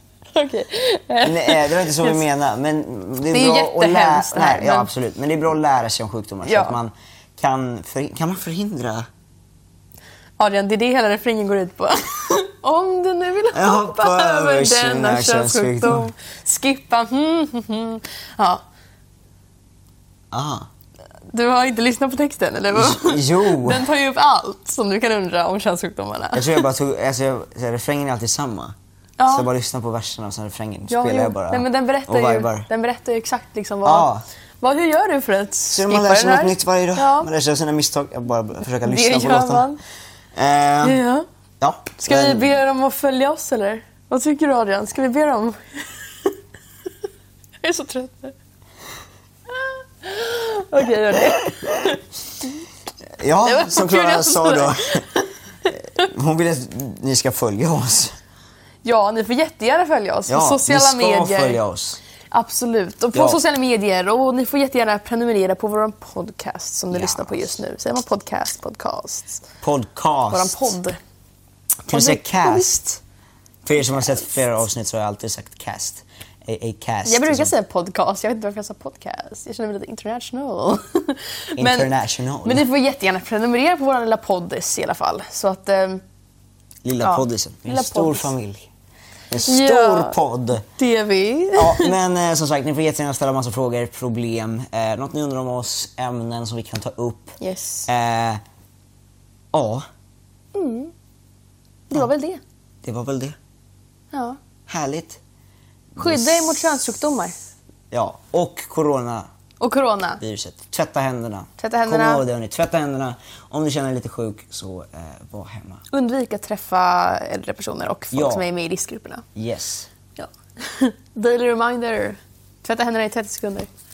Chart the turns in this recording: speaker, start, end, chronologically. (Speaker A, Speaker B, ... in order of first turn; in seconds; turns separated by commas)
Speaker A: 0.3-2.2, Speaker B: 1.2-9.1, Speaker A: 3.2-4.9, Speaker A: 6.4-6.8, Speaker A: 10.4-18.6, Speaker B: 13.5-16.1, Speaker B: 20.3-20.7, Speaker A: 21.3-26.6, Speaker B: 22.7-23.9, Speaker B: 26.3-28.7, Speaker A: 29.2-29.5, Speaker B: 29.3-32.7, Speaker A: 30.9-34.1, Speaker B: 33.8-34.2, Speaker A: 34.6-37.3, Speaker B: 35.7-39.7, Speaker A: 38.8-39.8, Speaker B: 40.3-41.0, Speaker A: 40.8-41.2, Speaker B: 41.6-42.5, Speaker A: 42.0-46.3, Speaker A: 47.6-48.3, Speaker A: 49.5-52.0, Speaker B: 51.2-52.0, Speaker B: 53.2-55.0, Speaker A: 53.4-55.3, Speaker B: 55.7-58.1, Speaker A: 58.8-61.6, Speaker B: 60.3-62.0, Speaker A: 62.3-69.4, Speaker B: 63.1-63.4, Speaker B: 66.9-67.6, Speaker B: 69.6-70.7, Speaker A: 70.3-71.0, Speaker A: 71.9-72.7, Speaker B: 71.9-73.0, Speaker B: 73.7-77.5, Speaker A: 73.8-74.2, Speaker A: 77.0-86.0, Speaker B: 81.6-82.6, Speaker B: 86.8-88.7, Speaker A: 87.0-88.3, Speaker B: 89.3-90.6, Speaker A: 89.4-90.2, Speaker A: 90.8-91.9, Speaker B: 91.5-97.3, Speaker A: 97.4-97.9, Speaker B: 97.9-98.4, Speaker B: 99.5-99.8, Speaker A: 100.5-100.9, Speaker A: 101.9-102.4, Speaker B: 102.8-103.3, Speaker A: 104.1-104.4, Speaker B: 104.7-105.2, Speaker B: 105.9-106.5, Speaker A: 106.0-107.3, Speaker B: 107.9-109.3, Speaker A: 109.6-110.2, Speaker B: 110.2-115.8, Speaker A: 111.6-112.2, Speaker A: 115.9-119.2, Speaker B: 118.1-118.5, Speaker B: 119.3-119.9, Speaker A: 120.2-123.7